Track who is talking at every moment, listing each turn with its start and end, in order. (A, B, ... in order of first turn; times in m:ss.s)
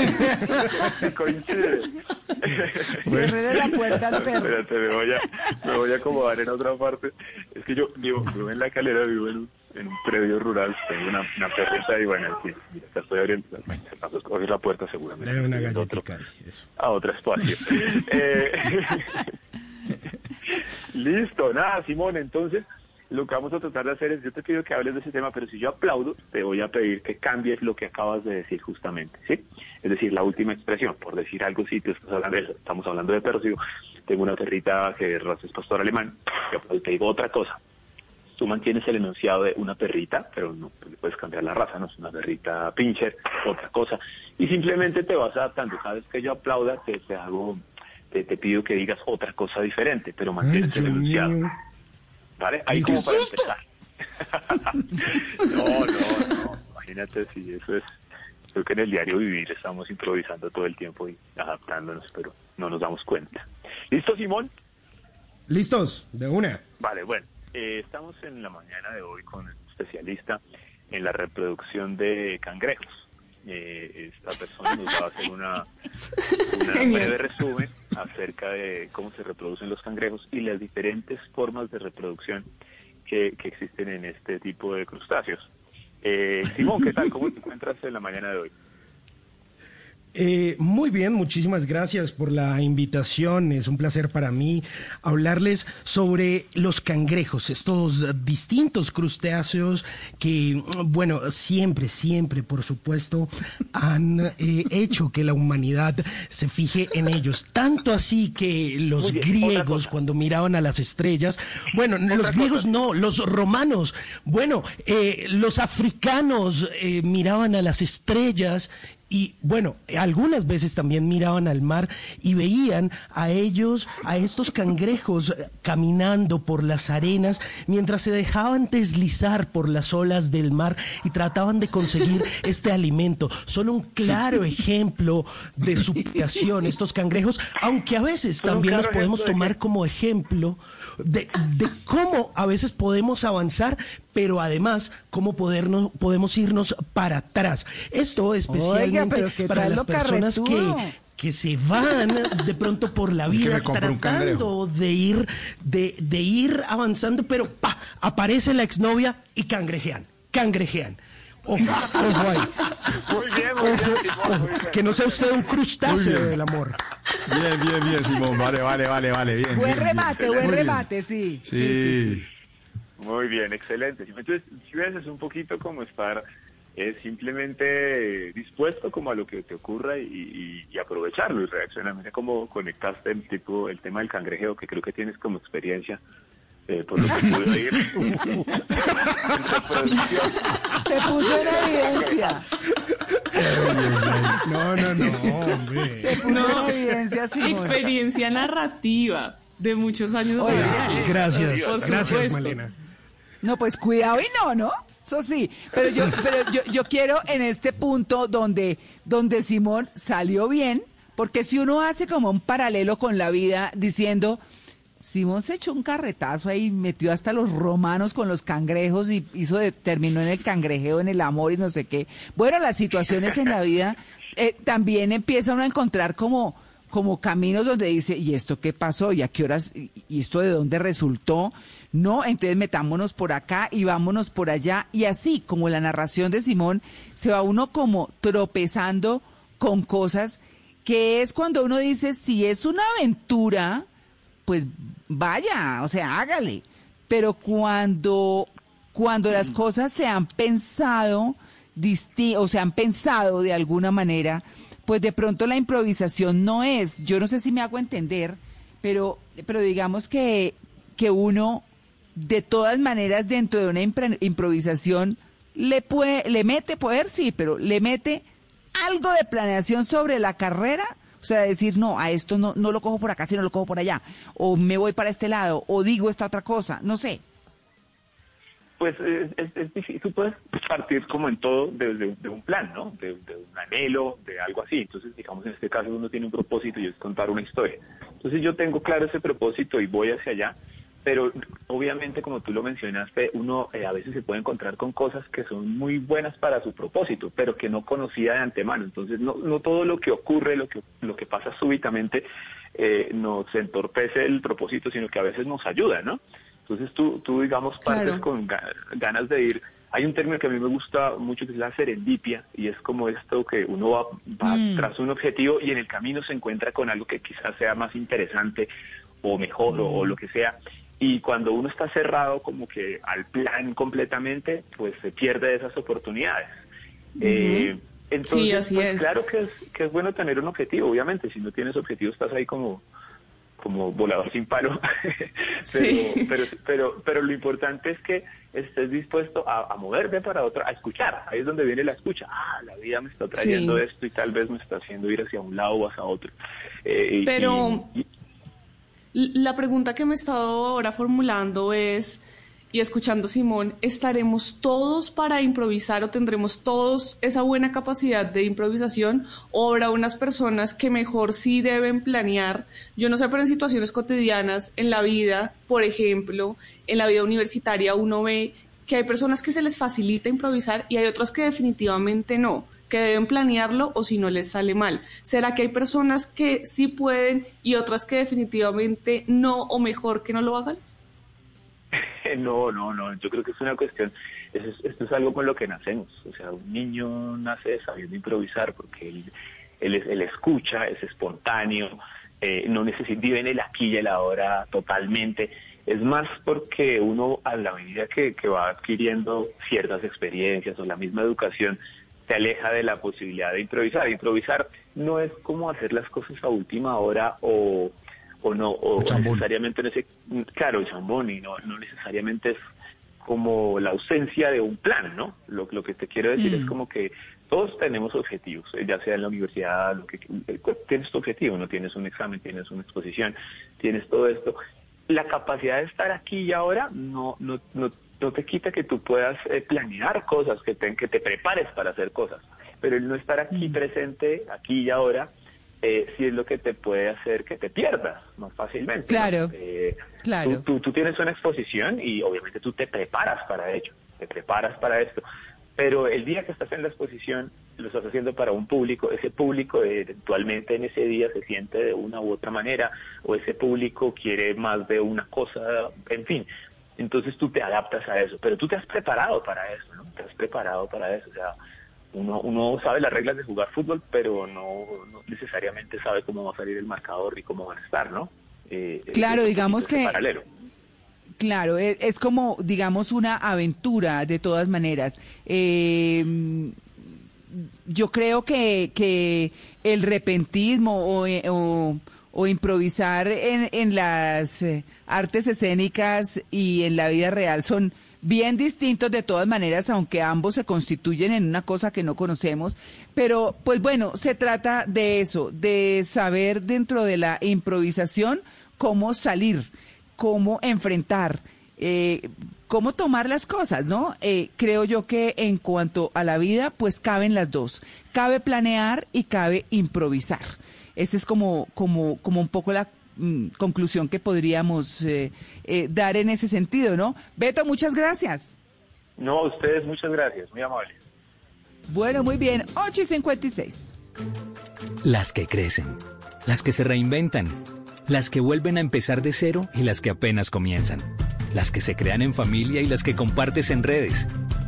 0:00.7-0:02.9 A
0:03.0-0:04.6 B
0:03.0-0:03.4 C
0:04.2-0:16.0 A
0:15.2-0:16.7 D
0:16.8-0:19.3 A
0:20.5-0:33.6 A
0:34.1-0:37.6 A
0:38.4-0:51.4 A
0:50.4-0:51.5 D
0:52.4-0:53.6 A
0:52.7-0:53.3 D
0:54.3-0:57.8 A
0:58.5-1:04.5 A
1:05.5-1:06.6 D
1:06.8-1:10.4 A
1:10.9-1:15.7 A
1:16.5-1:22.5 A
1:16.7-1:17.2 E
1:23.1-1:25.5 A
1:26.0-1:28.5 A
1:30.2-2:42.7 D
1:49.0-1:49.9 A
1:52.1-1:52.8 A
2:18.4-2:19.6 A
2:28.5-2:30.9 B
2:33.3-2:34.5 C
2:43.0-2:45.6 A
2:43.6-2:46.8 D
2:45.9-2:46.4 C
2:47.2-2:50.8 C
2:49.5-2:52.2 B
2:50.0-2:50.7 A
2:51.4-2:52.2 C
2:53.0-2:56.2 A
2:56.8-3:06.0 A
3:06.7-3:08.2 A
3:08.9-3:10.5 A
3:10.8-3:12.4 B
3:11.2-3:12.3 A
3:13.6-3:16.4 D
3:13.6-3:14.3 C
3:16.0-3:17.9 B
3:16.2-3:16.8 E
3:17.4-3:22.6 E
3:20.4-3:20.9 B
3:20.4-3:22.7 D
3:20.7-3:22.2 A
3:23.4-3:34.4 B
3:35.0-4:03.8 B
4:04.5-4:21.6 B
4:22.2-4:28.2 B
4:28.8-4:37.2 B
4:38.8-5:18.7 A
5:07.8-5:08.2 E
5:14.5-5:14.9 B
5:19.2-5:26.5 A
5:27.2-5:27.7 E
5:27.2-5:32.8 A
5:28.3-5:29.1 E
5:33.6-5:46.3 A
5:35.6-5:36.4 E
5:43.4-5:43.8 E
5:46.8-5:48.0 A
5:47.3-5:47.9 E
5:49.1-5:52.2 E
5:52.7-6:20.8 E
6:22.2-6:29.3 A
6:29.8-6:52.6 A
6:49.0-6:49.4 C
6:53.2-7:04.6 A
6:56.4-6:56.7 B
7:05.1-7:25.2 A
7:19.1-7:19.5 B
7:20.2-7:20.6 B
7:25.8-7:36.5 A
7:37.0-7:41.6 A
7:42.1-7:50.4 A
7:49.1-7:50.2 B
7:51.4-7:56.8 B
7:57.5-8:38.5 B
8:39.2-8:41.0 A
8:41.9-8:43.9 B
8:45.0-8:54.3 F